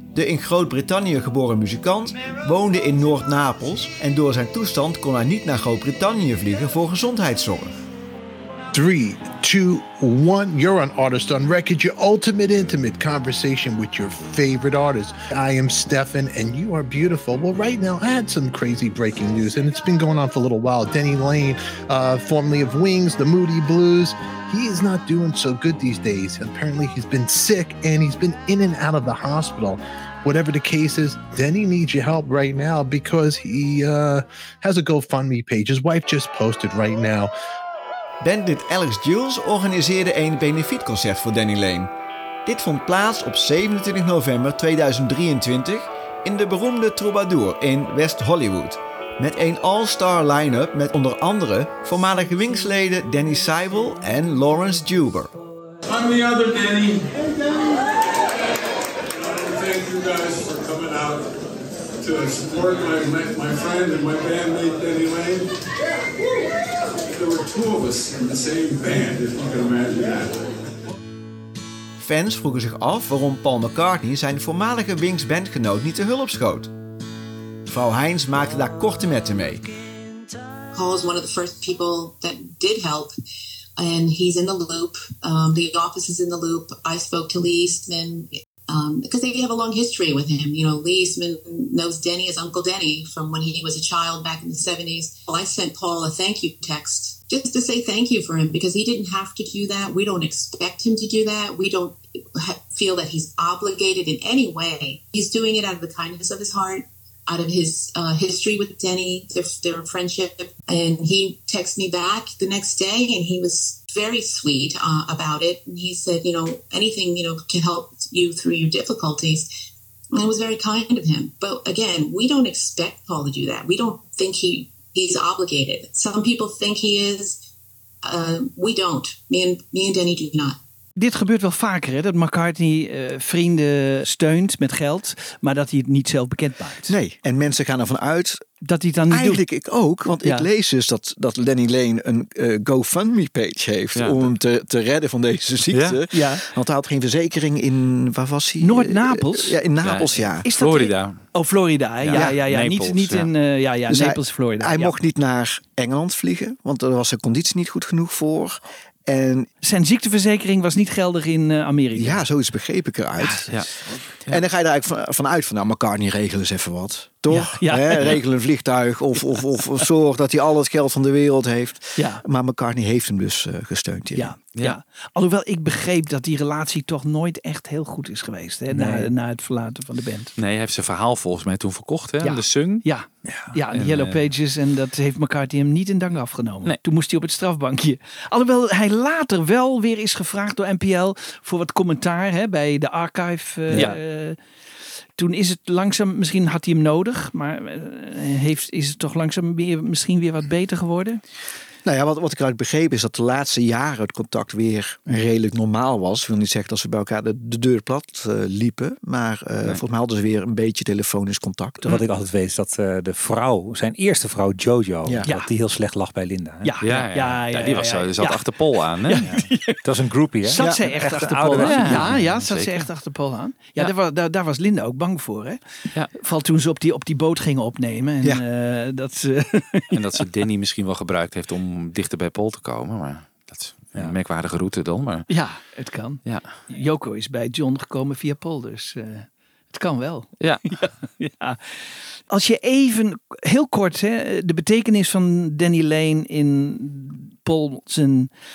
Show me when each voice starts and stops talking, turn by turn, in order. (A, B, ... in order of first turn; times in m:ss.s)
0:00.1-0:07.7 A
0:08.7-0:37.3 B
0:38.2-0:41.9 A
0:42.5-0:55.3 A
0:55.8-0:57.1 C
0:59.1-1:01.4 C
1:02.0-1:05.5 C
1:07.1-1:10.4 C
1:12.0-1:16.7 A
1:17.7-1:19.6 A
1:20.7-1:23.1 D
1:23.8-1:59.5 D
2:00.2-2:07.4 D
2:08.0-2:10.6 D
2:11.0-2:16.9 E
2:16.9-2:18.4 F
2:18.6-2:19.4 E
2:19.1-2:30.5 F
2:24.0-2:24.2 G
2:25.7-2:26.0 G
2:26.1-2:26.4 E
2:28.6-2:29.6 E
2:29.8-2:31.2 G
2:30.4-2:35.0 E
2:32.0-2:33.3 G
2:33.9-2:39.5 F
2:39.6-2:42.2 E
2:42.0-2:43.6 F
2:43.2-2:44.0 E
2:44.3-2:54.4 F
2:47.3-2:48.2 E
2:52.0-2:52.2 E
2:54.2-3:00.3 E
2:58.7-2:59.1 H
3:00.4-3:02.8 G
3:02.2-3:14.4 E
3:03.3-3:03.6 H
3:03.7-3:04.2 G
3:15.2-3:21.2 E
3:21.8-3:31.8 F
3:31.8-3:36.8 H
3:36.6-3:39.8 E
3:36.8-3:39.3 G
3:39.8-3:42.3 H
3:40.4-3:45.6 E
3:41.6-3:42.8 G
3:46.2-3:50.2 E
3:49.9-3:55.3 G
3:55.3-4:01.6 E
3:56.2-3:56.6 G
4:00.4-4:00.8 G
4:02.3-4:08.3 E